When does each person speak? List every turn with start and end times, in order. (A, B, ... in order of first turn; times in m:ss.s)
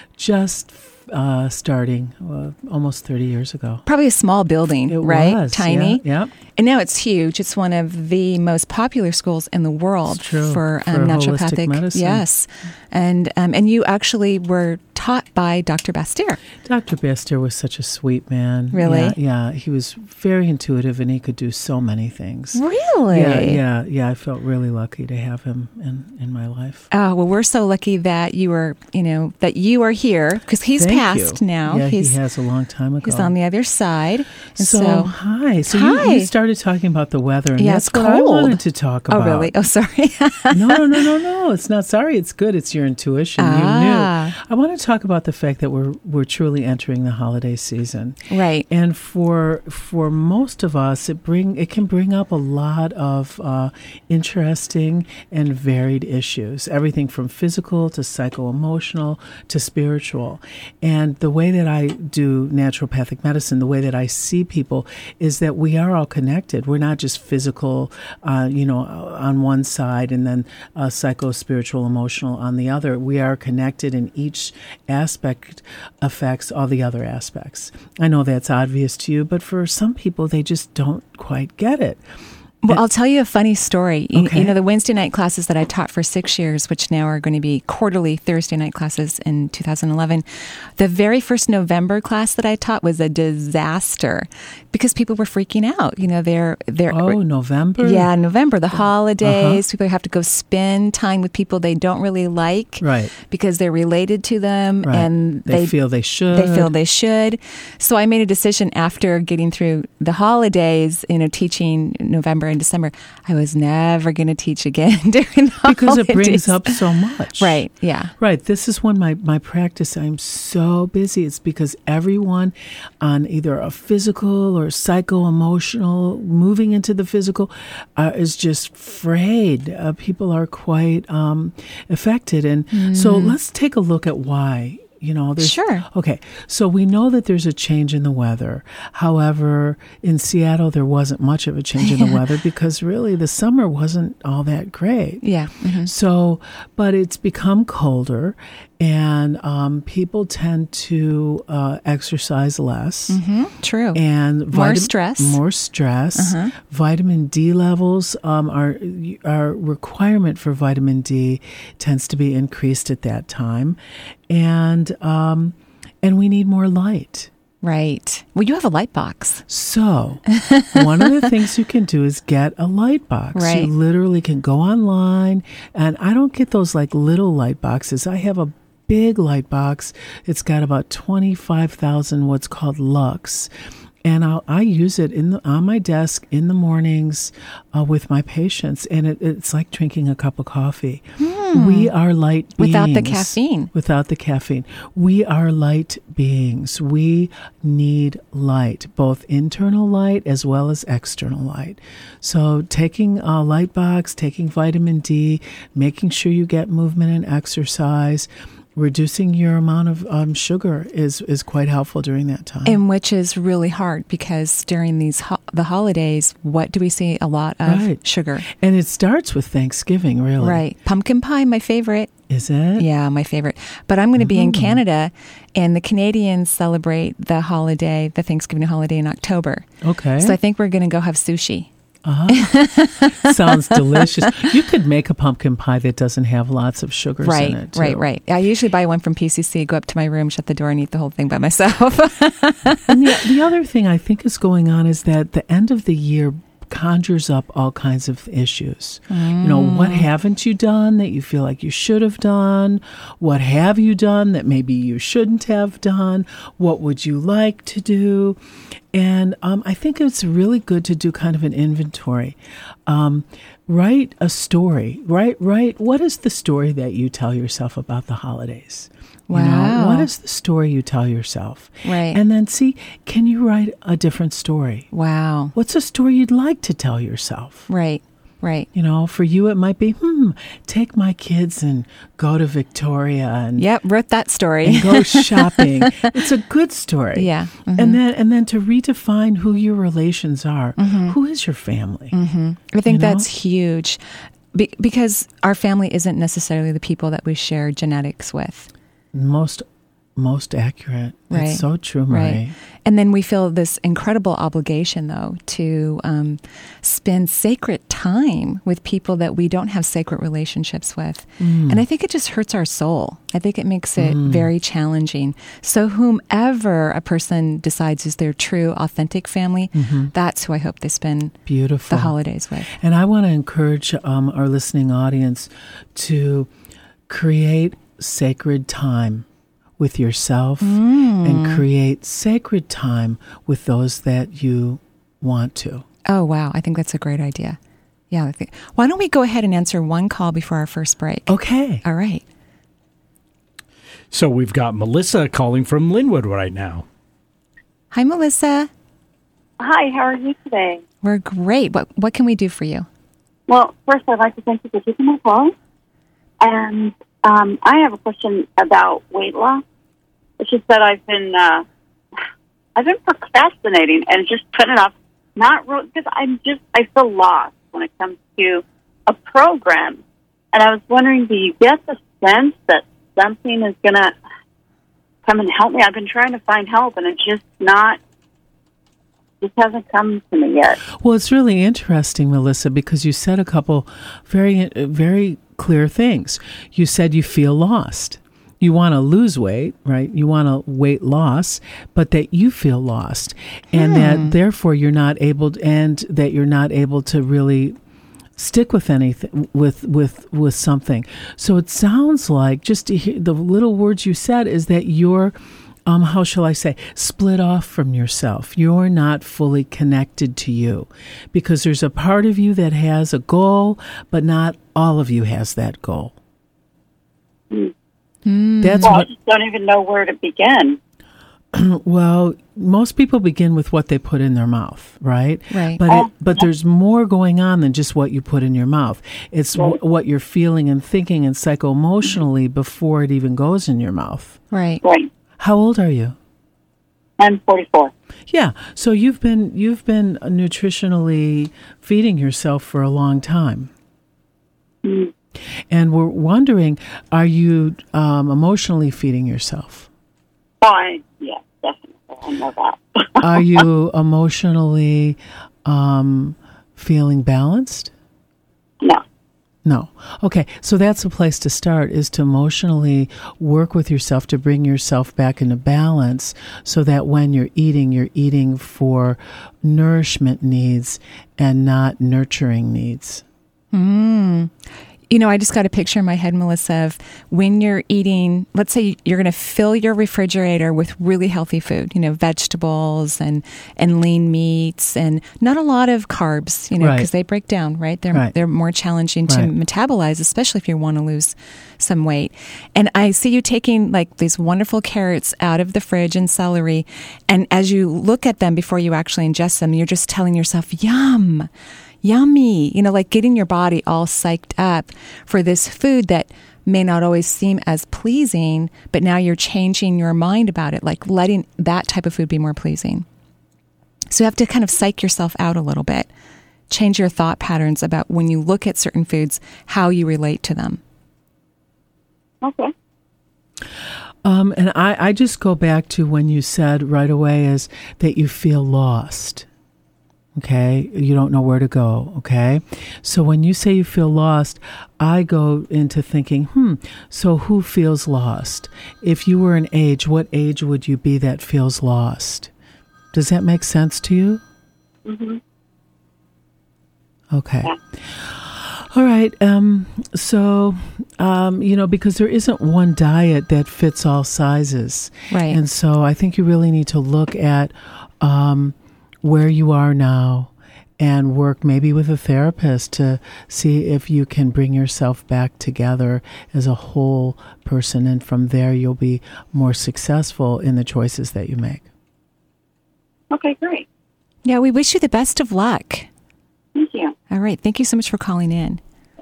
0:00.2-0:03.8 A
0:03.8-0:06.0 B
0:04.9-0:06.3 A
0:06.6-0:16.4 B
0:10.1-0:12.2 A
0:16.6-0:26.9 A
0:18.7-0:19.2 B
0:22.5-0:23.6 B
0:26.9-0:32.2 B
0:30.8-0:33.3 A
0:33.0-0:35.1 B
0:34.5-0:39.5 A
0:35.7-0:36.3 B
0:37.6-0:38.6 B
0:39.1-0:40.8 B
0:40.5-0:48.2 A
0:43.4-0:44.3 B
0:48.3-0:48.6 B
0:48.7-1:22.0 A
1:22.6-1:30.2 B
1:24.1-1:24.5 A
1:30.8-1:37.2 B
1:36.9-1:38.1 A
1:37.8-1:45.7 B
1:38.8-1:39.6 A
1:42.8-1:43.1 A
1:44.8-1:46.7 A
1:46.3-1:56.8 B
1:55.6-1:57.6 A
1:57.4-1:58.1 B
1:58.2-2:25.2 A
2:12.7-2:13.4 B
2:15.4-2:15.8 B
2:21.8-2:22.2 B
2:25.2-2:25.9 B
2:25.8-2:33.2 A
2:33.1-2:34.0 B
2:33.9-2:47.3 A
2:34.5-2:35.4 B
2:36.1-2:36.5 B
2:47.6-2:49.4 B
2:49.5-3:03.5 A
2:50.3-2:51.2 B
2:53.3-2:53.7 B
3:04.0-3:32.8 A
3:11.2-3:11.9 B
3:12.6-3:13.7 B
3:32.6-3:38.4 B
3:37.6-3:40.6 A
3:40.4-3:42.1 B
3:42.3-3:42.9 A
3:42.8-3:49.7 B
3:44.2-3:44.8 A
3:49.8-3:50.4 A
3:50.2-3:51.7 B
3:52.0-3:52.5 A
3:52.3-3:54.5 B
3:53.2-3:58.0 A
3:57.2-4:03.1 B
4:02.9-4:18.4 A
4:09.1-4:10.1 B
4:18.9-4:34.9 A
4:29.3-4:30.1 B
4:31.8-4:32.2 B
4:34.9-4:35.5 B
4:35.5-4:37.7 A
4:37.7-4:38.7 B
4:38.7-4:43.6 A
4:43.6-4:46.2 B
4:44.6-4:52.1 A
4:47.1-4:48.0 B
4:50.8-4:51.2 B
4:52.1-4:54.0 B
4:52.8-4:53.3 A
4:54.5-4:58.7 B
4:59.1-4:59.6 A
5:00.2-5:02.5 A
5:01.3-5:21.4 B
5:11.4-5:11.8 A
5:14.0-5:14.5 A
5:19.7-5:20.1 A
5:21.4-5:22.1 A
5:21.9-5:22.7 B
5:22.7-5:26.5 A
5:27.1-5:29.2 A
5:29.8-5:35.8 A
5:30.6-5:31.6 B
5:36.1-5:37.6 B
5:38.1-5:42.2 B
5:41.3-5:41.8 A
5:44.1-5:46.8 C
5:47.9-5:48.7 B
5:49.6-5:50.8 D
5:51.0-5:52.9 B
5:53.5-5:55.5 D
5:56.4-5:59.6 D
6:00.4-6:01.6 D
6:02.8-6:10.0 D
6:10.5-6:14.1 D
6:15.2-6:18.0 D
6:19.4-6:20.8 D
6:20.9-6:37.8 A
6:33.7-6:34.3 B
6:38.4-6:56.1 A
6:58.2-6:59.0 B
6:58.6-6:59.1 A
6:58.8-7:00.8 D
7:01.5-7:14.4 A
7:05.5-7:05.8 B
7:05.8-7:06.2 D
7:14.5-7:14.8 B
7:14.8-7:15.1 D
7:15.4-7:16.2 A
7:17.2-7:17.9 D
7:18.3-7:23.7 A
7:24.8-7:25.1 D
7:25.7-7:29.9 A
7:30.6-7:33.4 D
7:33.2-7:37.9 A
7:39.6-7:53.2 A
7:53.7-7:54.5 B
7:55.1-8:21.5 B
8:06.8-8:07.1 A
8:09.3-8:09.5 A
8:22.0-8:33.0 B
8:34.1-8:36.1 B
8:36.7-8:40.8 B
8:42.4-8:42.7 D
8:44.2-8:49.5 A
8:50.3-9:02.5 A
9:03.1-9:04.4 A
9:05.0-9:05.4 D
9:07.3-9:31.8 A
9:15.3-9:15.6 B
9:33.3-9:33.8 D
9:34.4-9:36.1 B
9:36.7-9:37.1 D
9:37.3-9:38.8 B